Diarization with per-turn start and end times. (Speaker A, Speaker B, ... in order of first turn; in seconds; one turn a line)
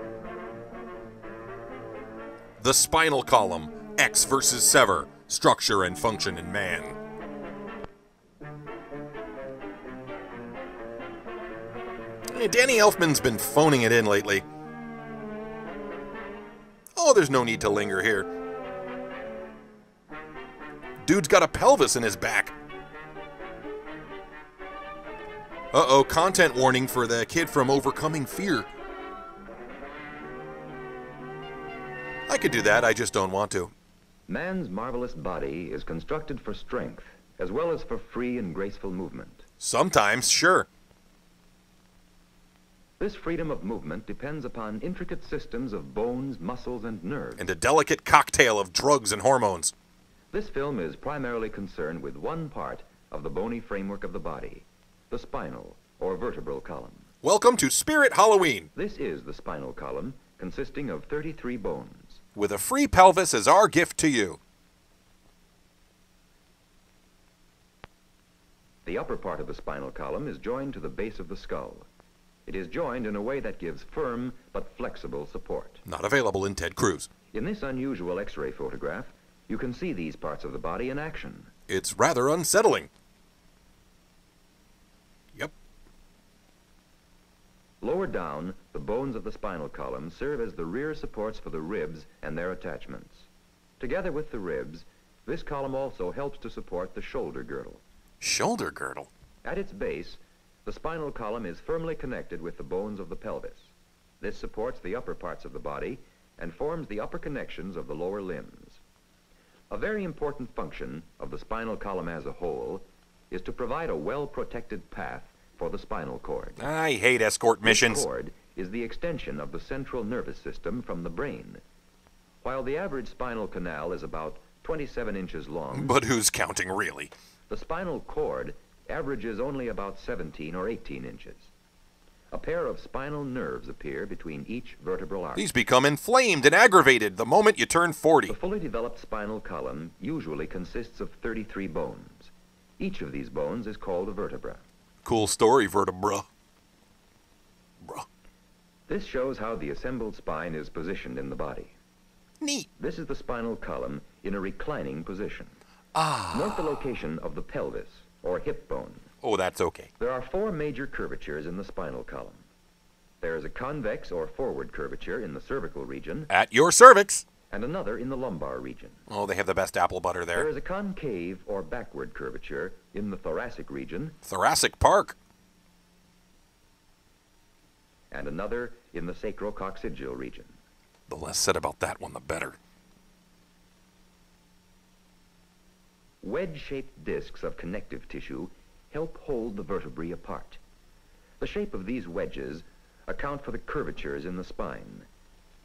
Speaker A: 2.6-7.0
Speaker A: 12.3-14.4
Speaker A: 16.9-18.3
Speaker A: 21.0-22.5
Speaker A: 25.7-28.7
Speaker A: 32.3-33.7
Speaker B: 34.3-39.5
Speaker A: 39.6-40.7
Speaker B: 43.0-47.5
Speaker A: 47.4-49.7
Speaker B: 50.3-57.1
Speaker A: 57.2-58.7
Speaker B: 58.7-62.2
Speaker A: 62.3-64.4
Speaker B: 68.8-71.9
Speaker B: 72.5-75.8
Speaker A: 75.8-77.1
Speaker B: 77.3-81.5
Speaker A: 81.7-82.9
Speaker B: 87.8-93.3
Speaker B: 93.8-97.8
Speaker A: 98.2-99.1
Speaker B: 99.4-108.8
Speaker B: 109.7-116.6
Speaker A: 116.6-118.0
Speaker B: 117.6-121.6
Speaker B: 122.4-125.9
Speaker A: 125.7-127.1
Speaker B: 127.5-131.5
Speaker B: 132.3-135.5
Speaker A: 135.3-138.3
Speaker B: 138.3-144.6
Speaker A: 145.0-146.2
Speaker B: 148.9-151.7
Speaker A: 152.4-152.7
Speaker B: 152.8-155.5
Speaker A: 155.9-156.8
Speaker B: 156.3-159.1
Speaker A: 159.2-159.9
Speaker B: 160.0-162.4
Speaker B: 163.2-166.3
Speaker A: 166.3-167.2
Speaker B: 167.5-169.0
Speaker A: 169.1-170.5
Speaker B: 170.3-174.2
Speaker A: 174.2-175.1
Speaker B: 178.1-180.6
Speaker A: 181.1-182.6
Speaker B: 186.2-190.6
Speaker B: 191.4-195.1